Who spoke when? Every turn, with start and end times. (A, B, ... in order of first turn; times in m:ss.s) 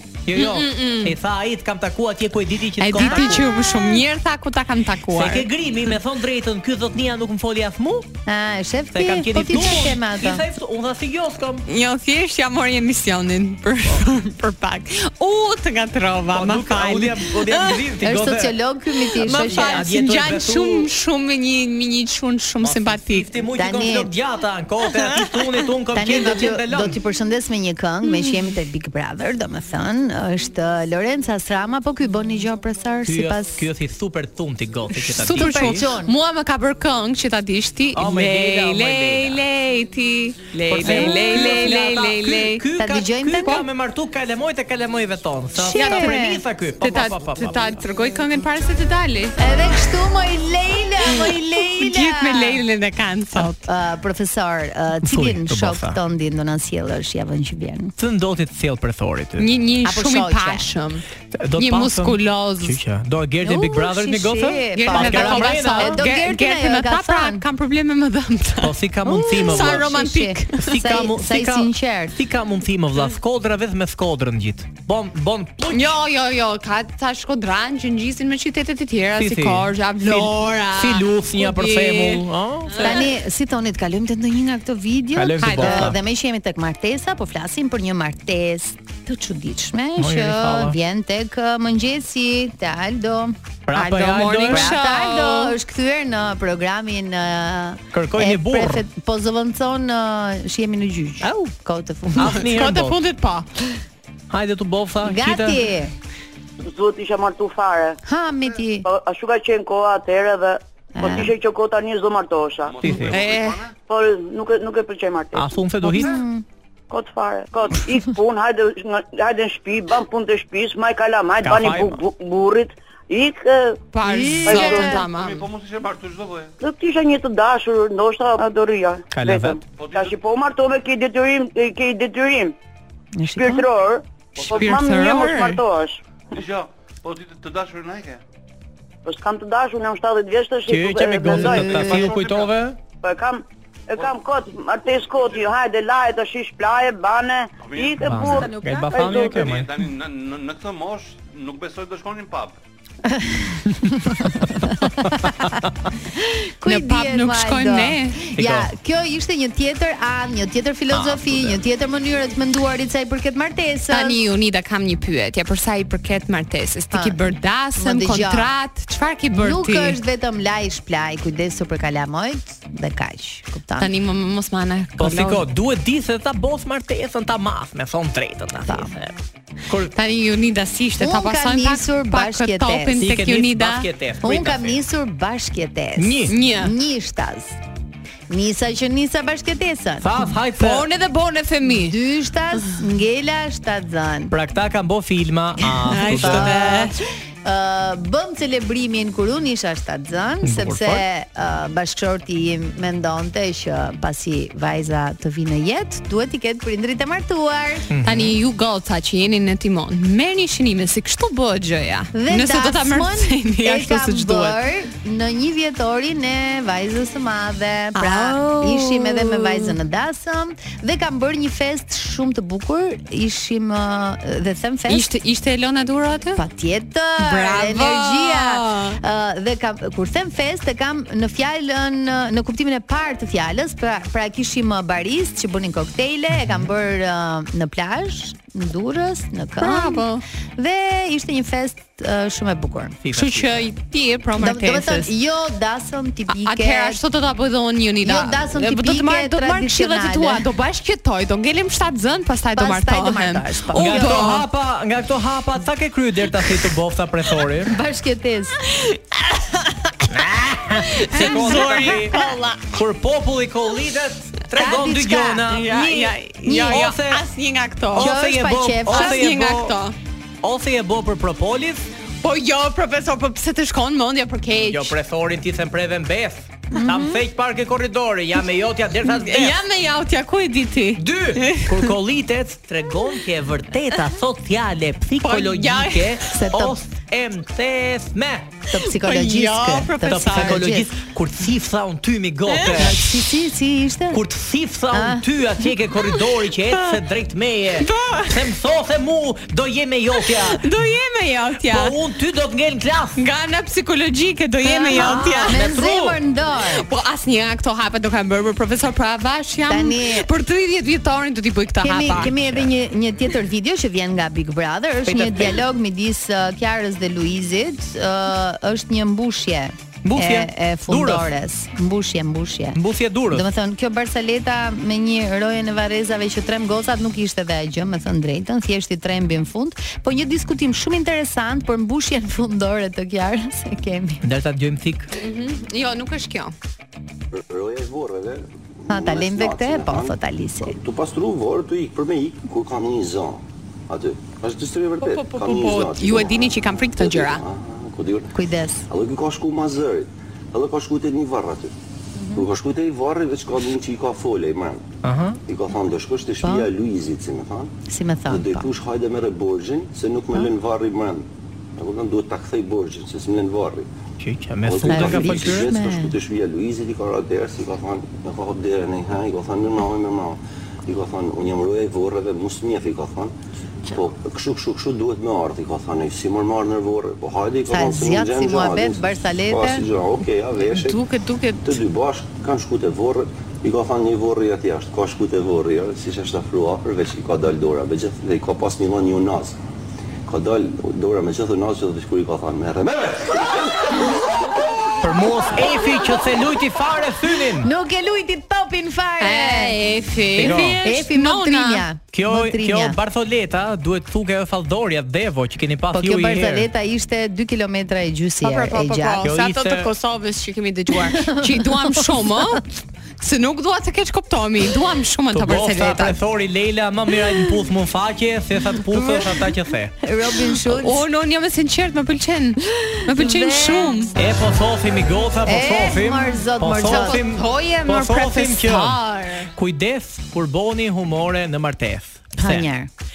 0:00.2-0:03.5 A
0:00.4-0:01.1 B
0:02.8-0:05.5 B
0:03.0-0:03.5 C
0:05.1-0:08.1 A
0:08.2-0:10.4 C
0:08.9-0:11.6 A
0:11.7-0:17.8 B
0:16.3-0:18.6 A
0:18.0-0:19.8 C
0:19.1-0:23.3 B
0:19.4-0:20.9 A
0:22.6-0:27.0 A
0:23.5-0:24.1 C
0:25.1-0:25.4 B
0:25.9-0:33.7 C
0:28.0-0:28.4 B
0:33.0-0:35.8 A
0:34.9-0:42.6 B
0:35.2-0:36.1 C
0:37.9-0:39.4 A
0:40.7-0:47.8 A
0:40.8-0:42.0 C
0:42.8-0:43.6 C
0:45.5-0:46.4 C
0:45.7-0:46.2 B
0:46.8-0:49.4 B
0:49.4-0:52.6 C
0:51.0-0:53.6 B
0:53.6-0:57.9 C
0:55.0-0:56.0 A
0:58.0-0:59.5 A
0:59.4-1:01.0 B
0:59.8-1:00.7 C
1:01.4-1:06.0 A
1:01.6-1:02.8 B
1:03.4-1:07.4 C
1:04.7-1:10.7 B
1:08.6-1:09.9 A
1:09.1-1:12.2 C
1:10.6-1:15.9 A
1:15.7-1:23.0 B
1:19.2-1:23.0 A
1:22.8-1:33.4 C
1:25.1-1:26.0 A
1:25.4-1:25.9 B
1:30.0-1:30.8 A
1:33.7-1:34.7 A
1:33.7-1:35.5 B
1:34.5-1:42.4 C
1:37.9-1:38.8 A
1:41.2-1:41.5 A
1:42.1-1:43.0 A
1:42.2-1:43.5 B
1:44.3-1:45.6 A
1:45.0-1:45.9 C
1:46.6-1:48.0 D
1:48.0-1:48.8 C
1:48.8-1:52.8 D
1:50.9-1:51.3 C
1:52.6-1:53.7 E
1:52.8-1:53.2 A
1:53.0-1:53.6 B
1:53.9-1:55.6 D
1:55.3-1:56.1 A
1:55.8-1:56.4 C
1:56.9-2:03.8 D
2:01.4-2:02.0 A
2:03.9-2:05.4 B
2:04.0-2:05.1 C
2:04.4-2:05.0 D
2:05.0-2:06.5 E
2:06.6-2:12.5 D
2:09.1-2:09.6 A
2:09.7-2:10.2 E
2:13.2-2:13.6 C
2:13.3-2:16.0 D
2:14.4-2:14.8 E
2:14.5-2:15.6 B
2:16.3-2:18.2 E
2:19.0-2:21.7 D
2:20.7-2:22.8 A
2:21.3-2:22.1 C
2:21.7-2:22.5 E
2:23.0-2:29.5 D
2:27.6-2:28.4 E
2:28.0-2:29.7 A
2:29.1-2:32.6 E
2:33.0-2:35.4 C
2:34.4-2:35.5 A
2:36.2-2:44.2 C
2:36.6-2:38.2 B
2:38.4-2:38.7 A
2:40.9-2:41.6 A
2:43.9-2:50.0 B
2:46.9-2:47.2 C
2:47.8-2:48.5 C
2:49.3-2:53.9 C
2:53.8-2:55.4 B
2:55.0-2:59.1 A
2:58.6-2:58.9 C
2:59.7-2:59.9 A
2:59.9-3:03.9 B
3:01.0-3:03.0 C
3:03.0-3:04.8 A
3:04.2-3:07.6 C
3:06.0-3:06.3 A
3:06.3-3:06.7 B
3:08.3-3:10.3 C
3:10.0-3:10.9 A
3:10.5-3:12.0 B
3:11.6-3:14.3 C
3:14.3-3:16.6 A
3:15.8-3:17.0 B
3:16.1-3:27.9 C
3:20.4-3:21.0 A
3:27.9-3:28.4 A
3:28.0-3:34.6 B
3:32.1-3:45.1 C
3:37.9-3:39.7 B
3:44.9-3:46.4 B
3:46.4-4:03.0 C
3:47.2-3:49.0 B
3:56.3-3:56.6 A
3:59.6-4:00.2 B
4:03.0-4:03.7 A
4:03.1-4:05.1 B
4:04.4-4:07.0 C
4:06.3-4:14.5 B
4:08.0-4:10.5 C
4:12.5-4:14.3 C
4:13.7-4:17.7 A
4:17.7-4:18.6 C
4:18.6-4:20.1 B
4:20.1-4:27.2 A
4:20.8-4:22.6 B
4:21.1-4:22.2 C
4:24.5-4:25.5 C
4:25.5-4:28.1 B
4:26.5-4:26.9 C
4:27.9-4:29.8 A
4:27.9-4:29.2 C
4:28.9-4:29.9 B
4:30.4-4:31.9 A
4:32.2-4:34.9 B
4:34.7-4:39.6 A
4:36.7-4:37.2 C
4:39.0-4:41.9 B
4:41.0-4:48.5 A
4:45.2-4:46.2 B
4:46.3-4:46.8 C
4:48.7-4:50.9 C
4:48.7-4:50.6 B
4:50.1-4:53.1 A
4:52.5-4:52.9 B
4:52.7-4:54.2 C
4:54.1-5:00.8 A
4:54.9-4:55.3 C
4:56.7-4:57.0 B
4:57.8-4:58.5 B
5:00.2-5:01.9 B
5:01.6-5:03.2 A
5:03.2-5:05.6 B
5:04.6-5:06.8 C
5:04.9-5:06.2 A
5:06.7-5:12.3 B
5:09.7-5:10.3 C
5:11.8-5:22.8 C
5:12.1-5:12.7 A
5:15.0-5:15.6 A
5:20.0-5:21.3 A
5:22.7-5:23.4 A
5:23.3-5:34.2 C
5:34.2-5:35.1 A
5:35.2-5:36.5 B
5:37.3-5:48.3 F
5:38.9-5:40.8 C
5:45.0-5:47.4 B
5:48.3-5:48.9 C
5:48.9-5:51.7 F
5:52.1-5:52.5 C
5:52.3-5:54.9 F
5:55.0-5:55.4 A
5:55.5-5:57.7 F
5:56.4-5:56.7 C
5:57.9-5:58.7 C
5:58.3-6:03.9 F
6:04.2-6:05.7 A
6:04.6-6:13.3 F
6:04.9-6:06.2 C
6:13.9-6:21.0 F
6:17.7-6:19.8 C
6:20.6-6:21.8 B
6:21.6-6:29.6 F
6:30.2-6:33.9 F
6:35.0-6:37.7 A
6:37.6-6:39.8 C
6:39.2-6:41.8 B
6:40.4-6:40.8 A
6:40.4-6:43.0 C
6:42.1-6:46.7 A
6:45.9-6:49.3 C
6:48.4-6:52.7 B
6:49.2-6:49.9 A
6:51.0-6:52.6 C
6:53.2-6:56.2 B
6:55.3-6:59.9 A
7:00.0-7:01.0 C
7:00.7-7:04.1 B
7:02.7-7:04.2 C
7:04.1-7:09.0 A
7:05.4-7:07.2 C
7:06.8-7:09.5 B
7:09.5-7:12.7 A
7:12.4-7:12.9 C